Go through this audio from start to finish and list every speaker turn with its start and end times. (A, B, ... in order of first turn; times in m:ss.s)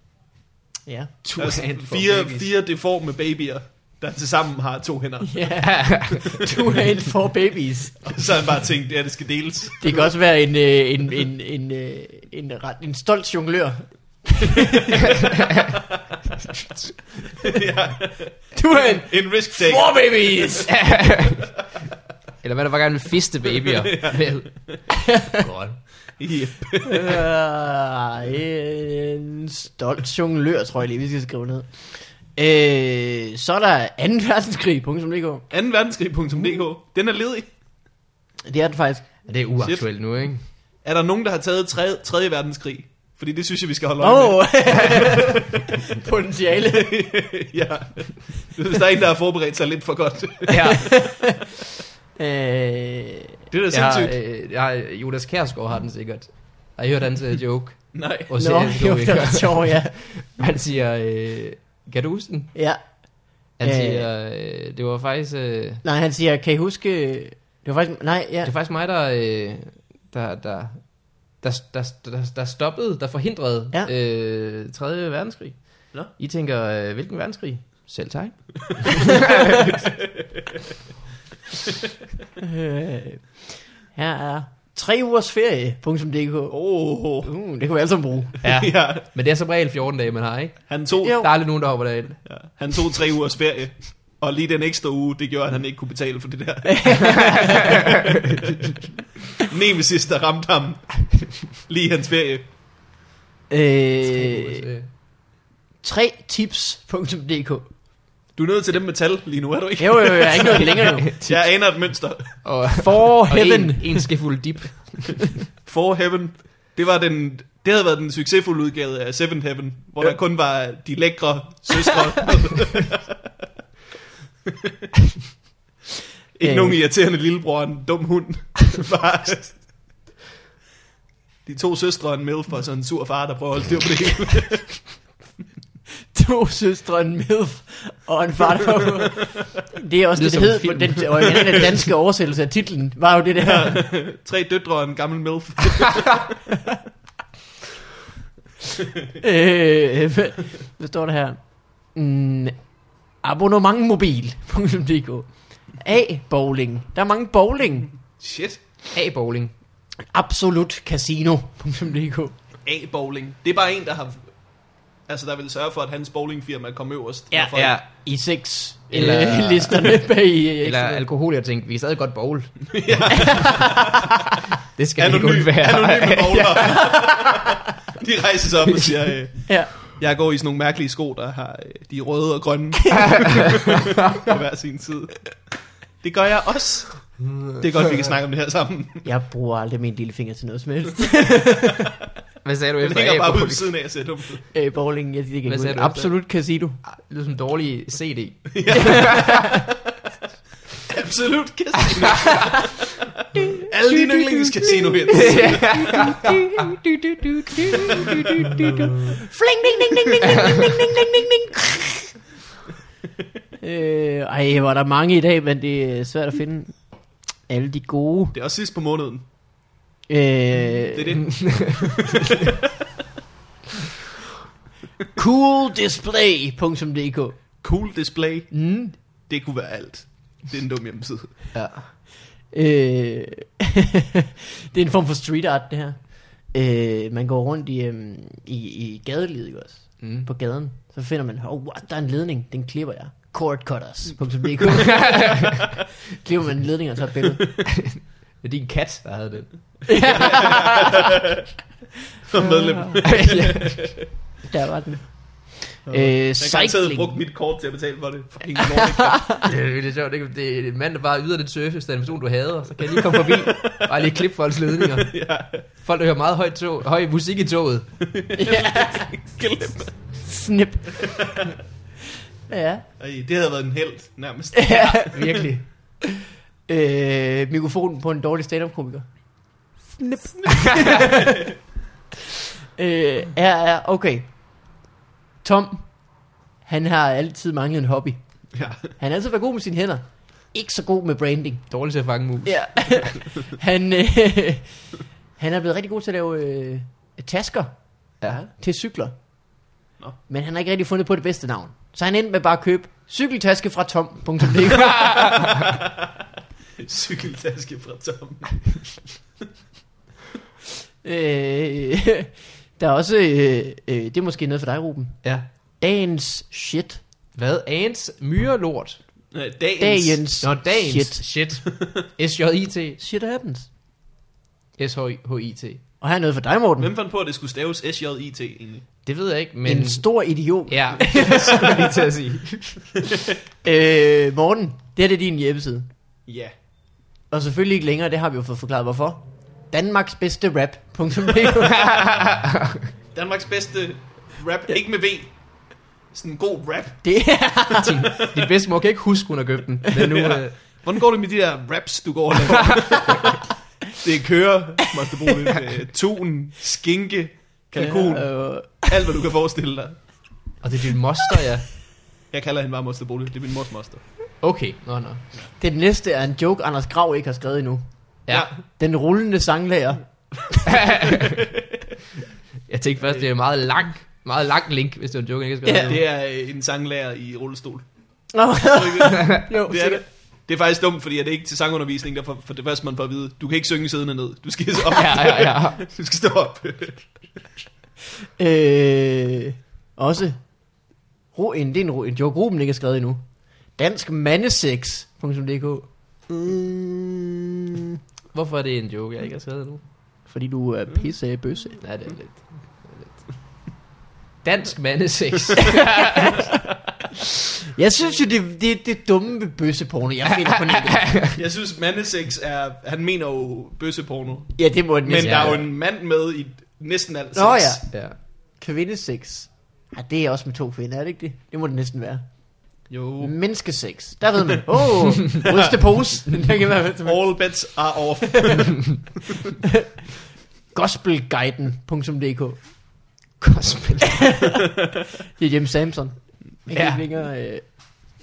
0:00.9-0:01.2 A
0:01.2-0:02.5 B
0:01.4-0:06.0 C
0:05.2-0:08.3 A
0:05.6-0:06.2 B
0:08.0-0:10.1 C
0:09.8-0:15.1 A
0:16.6-0:16.9 B
0:17.4-0:20.1 C
0:18.5-0:20.8 A
0:20.7-0:21.6 B
0:22.4-0:24.5 B
0:23.7-0:24.8 C
0:25.1-0:25.4 A
0:25.3-0:25.8 B
0:26.2-0:27.2 C
0:26.8-0:35.5 A
0:35.5-0:37.5 C
0:38.4-0:39.2 A
0:39.3-0:40.4 B
0:39.6-0:39.9 C
0:40.8-0:45.4 C
0:44.0-0:47.2 A
0:46.7-0:50.9 C
0:50.5-0:51.3 B
0:50.8-0:51.4 A
0:52.2-0:53.4 A
0:53.5-0:54.2 C
0:53.7-1:02.5 B
0:57.9-0:58.3 C
0:58.4-1:00.0 A
1:02.6-1:04.1 A
1:03.6-1:05.8 B
1:05.8-1:08.5 A
1:08.4-1:19.8 B
1:22.4-1:28.4 A
1:26.5-1:27.3 C
1:28.4-1:29.1 C
1:28.4-1:32.2 B
1:30.7-1:31.3 C
1:31.0-1:31.3 A
1:32.2-1:37.8 C
1:36.7-1:37.7 A
1:39.4-1:42.5 C
1:43.5-1:44.6 A
1:44.0-1:44.9 B
1:45.8-1:47.7 A
1:48.4-1:52.6 C
1:49.8-1:51.1 A
1:50.6-1:51.4 B
1:52.4-1:55.3 B
1:52.7-1:54.1 A
1:55.6-2:03.1 C
2:06.4-2:09.7 C
2:06.4-2:06.8 A
2:11.5-2:14.9 C
2:16.1-2:23.8 A
2:20.2-2:21.7 B
2:23.4-2:26.4 C
2:29.2-2:32.6 A
2:33.2-2:37.9 A
2:38.2-2:38.6 C
2:38.9-2:39.5 B
2:40.1-2:42.4 A
2:42.6-2:44.3 C
2:45.1-2:47.8 C
2:47.3-2:51.0 A
2:47.4-2:47.9 B
2:48.9-2:53.4 B
2:52.7-2:54.1 C
2:53.1-2:54.0 A
2:54.8-2:57.0 B
2:55.0-3:09.1 C
2:56.7-2:57.1 A
2:59.5-2:59.7 A
3:09.0-3:11.9 A
3:12.4-3:13.7 B
3:12.8-3:14.5 C
3:14.5-3:16.8 A
3:15.5-3:16.2 B
3:16.8-3:19.3 B
3:18.5-3:19.6 C
3:18.7-3:19.6 A
3:20.9-3:26.1 C
3:23.4-3:32.1 A
3:25.1-3:26.2 B
3:33.6-3:36.9 A
3:37.5-3:38.4 A
3:38.3-3:39.2 C
3:40.1-3:41.2 A
3:40.9-3:42.5 C
3:45.2-3:47.6 A
3:47.6-3:51.4 C
3:48.5-3:48.9 A
3:51.5-3:51.9 B
3:52.5-4:05.6 A
4:00.0-4:00.3 B
4:04.8-4:05.5 B
4:06.2-4:07.4 A
4:07.7-4:10.0 B
4:09.9-4:11.0 A
4:10.1-4:11.2 C
4:12.3-4:14.0 C
4:12.3-4:13.0 A
4:13.0-4:14.0 B
4:14.5-4:17.2 A
4:15.9-4:19.3 C
4:18.9-4:19.4 A
4:19.4-4:28.0 B
4:23.1-4:24.0 C
4:24.8-4:25.7 C
4:28.1-4:30.2 C
4:28.4-4:29.3 A
4:30.1-4:31.4 A
4:32.5-4:32.8 A
4:33.0-4:35.4 C
4:34.6-4:35.4 A
4:34.7-4:35.7 B
4:36.7-4:39.1 A
4:39.8-4:41.5 A
4:42.8-4:44.3 A
4:45.4-4:51.7 A
4:48.6-4:48.8 C
4:51.7-4:53.1 B
4:52.4-4:57.8 A
4:58.4-4:59.2 A
5:00.3-5:05.5 A
5:05.4-5:05.8 C
5:06.8-5:09.1 C
5:11.0-5:15.2 A
5:15.8-5:17.0 A
5:17.3-5:19.0 B
5:19.3-5:20.2 C
5:19.8-5:21.3 A
5:20.4-5:23.0 B
5:23.0-5:23.7 A
5:24.8-5:25.8 B
5:26.0-5:26.9 A
5:26.8-5:28.9 C
5:29.0-5:30.0 B
5:29.6-5:31.8 A
5:30.7-5:33.0 B
5:33.6-5:35.9 A
5:36.3-5:36.5 C
5:37.3-5:41.9 A
5:41.7-5:42.9 B
5:43.1-5:45.4 C
5:46.1-5:47.5 C
5:47.0-5:48.0 A
5:47.8-5:50.6 B
5:50.0-5:53.4 C
5:53.9-6:00.1 C
5:57.8-5:58.9 A
6:00.6-6:01.7 B
6:02.3-6:04.0 C
6:04.4-6:05.2 B
6:05.6-6:07.8 A
6:08.3-6:08.5 B
6:08.7-6:10.1 A
6:10.7-6:11.4 B
6:12.7-6:16.0 B
6:15.6-6:16.0 A
6:15.9-6:17.9 C
6:18.3-6:20.0 A
6:18.7-6:27.2 C
6:24.9-6:25.8 B
6:28.4-6:30.6 A
6:31.3-6:37.3 A
6:38.3-6:39.8 B
6:40.3-6:41.8 A
6:41.8-6:43.3 B
6:44.4-6:46.4 B
6:47.7-6:51.1 A
6:51.0-6:51.3 B
6:51.3-6:57.8 C
6:54.6-6:55.7 A
6:55.2-6:55.6 B
6:57.4-7:02.3 A
6:57.9-6:58.2 B
7:02.9-7:03.3 C
7:03.2-7:07.5 A
7:07.0-7:09.2 C
7:10.7-7:12.6 A
7:13.4-7:14.3 B
7:14.2-7:14.6 A
7:15.4-7:17.6 A
7:16.7-7:17.0 B